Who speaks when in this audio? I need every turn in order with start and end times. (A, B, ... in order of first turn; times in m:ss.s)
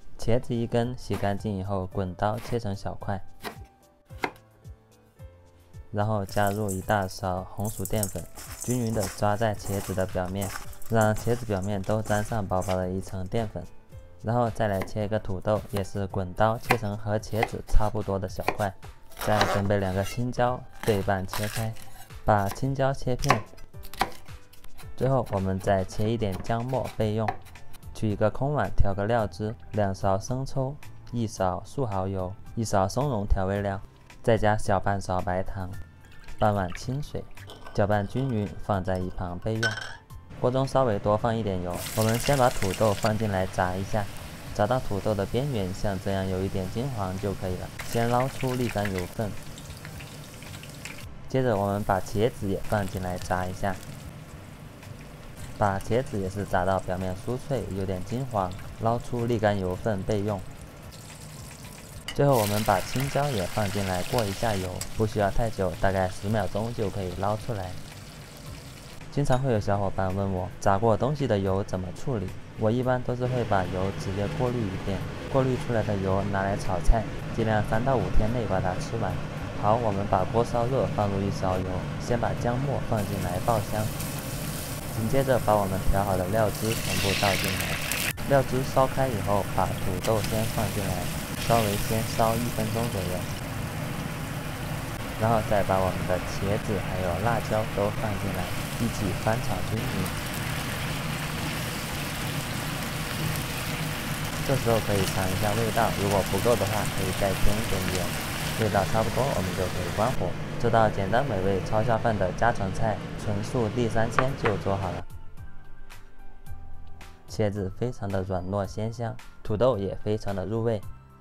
0:00.2-0:03.2 A
0:05.9-0:13.7 A
0:14.2-0:23.5 A
0:25.0-0:27.4 A
0:27.9-0:35.8 A
0:36.4-0:39.8 A
0:40.4-0:49.4 A
0:51.3-0:53.8 A
0:55.6-1:00.5 A
1:02.1-1:07.8 A
1:09.1-1:23.9 A
1:24.9-1:33.3 A
1:35.2-1:40.2 A
1:44.4-1:55.1 A
1:57.3-2:00.9 A